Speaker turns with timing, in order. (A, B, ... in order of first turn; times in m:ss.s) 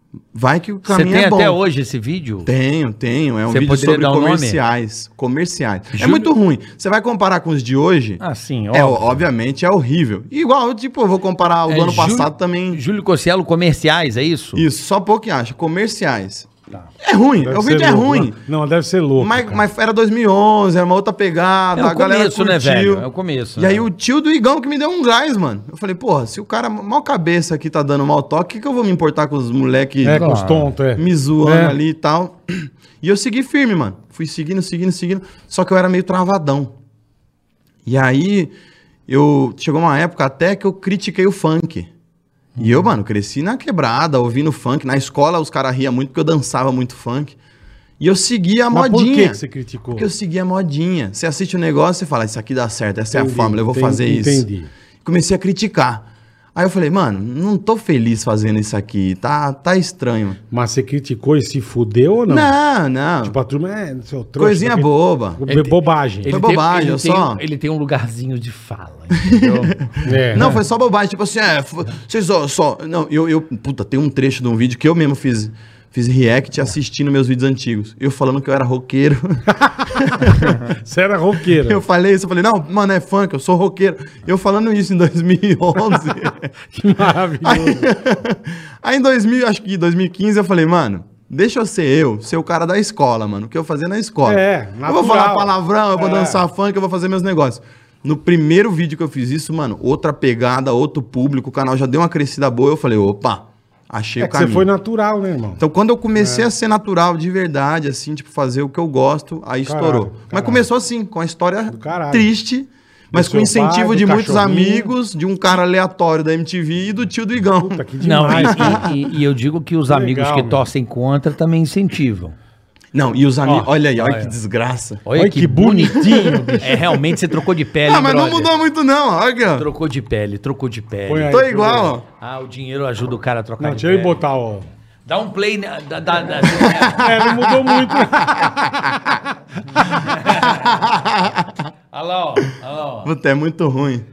0:00.3-0:01.6 A
0:00.9-0:02.5 B
0:02.4-0:08.2 A
0:03.5-0:04.6 B
0:05.9-0:06.3 B
0:08.2-0:09.2 B
0:08.7-0:12.8 A
0:11.7-0:14.6 B
0:14.5-0:16.5 A
0:17.0-0:18.4 A
0:17.4-0:19.6 C
0:19.2-0:23.0 A
0:21.7-0:23.8 B
0:23.6-0:30.3 A
0:30.0-0:31.8 C
0:30.1-0:30.7 B
0:30.9-0:36.7 A
0:37.8-0:38.5 A
0:39.1-0:41.9 A
0:42.6-0:47.4 A
0:42.6-0:42.9 B
0:48.0-0:49.4 A
0:48.7-0:50.1 C
0:49.9-0:54.4 A
0:53.1-0:54.7 C
0:55.0-1:00.4 A
1:00.5-1:02.5 C
1:02.3-1:03.4 A
1:03.2-1:06.3 C
1:04.4-1:05.4 A
1:05.4-1:09.8 B
1:06.3-1:07.4 A
1:09.2-1:20.6 A
1:10.0-1:10.6 C
1:20.6-1:21.8 C
1:21.5-1:26.5 A
1:26.7-1:27.9 C
1:27.4-1:44.7 A
1:34.2-1:36.4 C
1:44.2-1:45.6 C
1:45.6-1:58.9 A
1:46.2-1:46.5 C
1:49.6-1:50.6 C
1:51.7-1:52.3 C
1:53.1-1:54.9 C
1:57.6-1:58.9 C
1:58.0-2:02.3 B
1:59.9-2:00.6 C
2:02.9-2:05.0 A
2:03.4-2:03.7 C
2:04.0-2:04.3 B
2:05.0-2:08.5 B
2:05.1-2:06.8 C
2:05.9-2:06.8 A
2:07.8-2:09.7 A
2:09.6-2:11.4 B
2:11.1-2:12.0 C
2:11.3-2:12.0 A
2:12.2-2:14.2 B
2:13.6-2:14.7 C
2:15.0-2:17.2 B
2:16.6-2:19.1 A
2:16.9-2:18.8 C
2:19.8-2:20.9 B
2:20.2-2:21.7 A
2:21.9-2:23.1 B
2:23.0-2:24.0 A